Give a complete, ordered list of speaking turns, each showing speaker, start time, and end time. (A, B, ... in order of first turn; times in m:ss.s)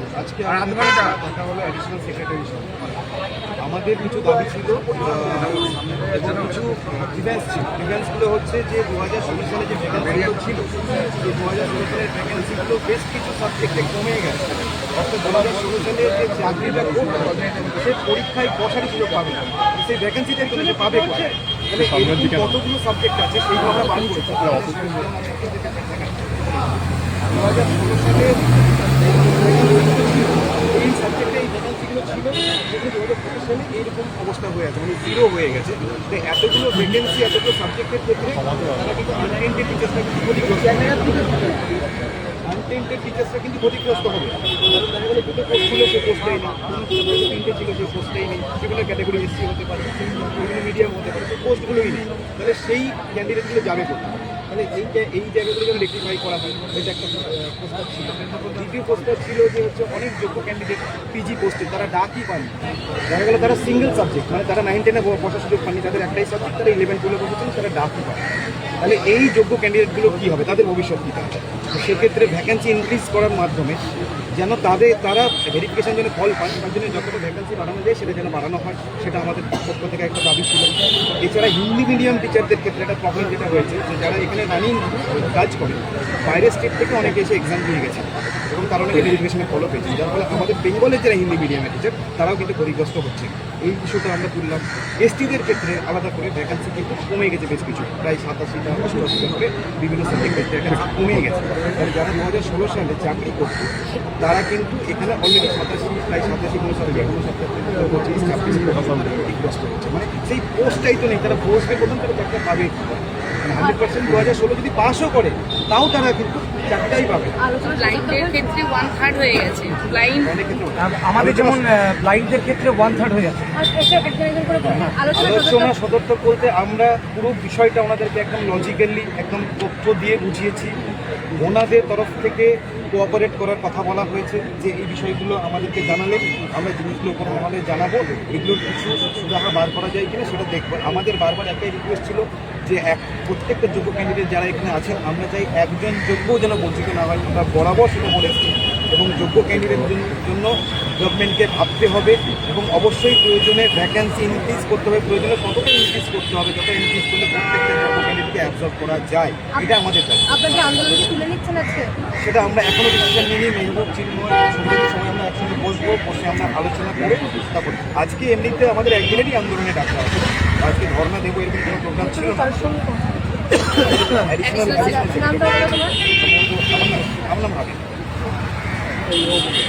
0:00.1-0:03.0 A
0:03.6-0:41.6 A
0:42.4-1:08.2 A
1:08.8-1:13.8 A
1:14.3-1:52.7 A
1:53.4-1:57.4 A
1:57.4-1:58.7 B
1:57.6-2:00.4 C
2:00.2-2:01.6 A
2:00.8-2:03.4 D
2:03.6-2:05.7 B
2:04.6-2:10.7 A
2:11.3-2:41.1 A
2:40.3-2:41.9 B
2:42.2-2:52.6 A
2:52.3-2:53.1 B
2:54.0-2:57.8 A
2:54.4-2:55.0 C
2:54.5-2:55.9 B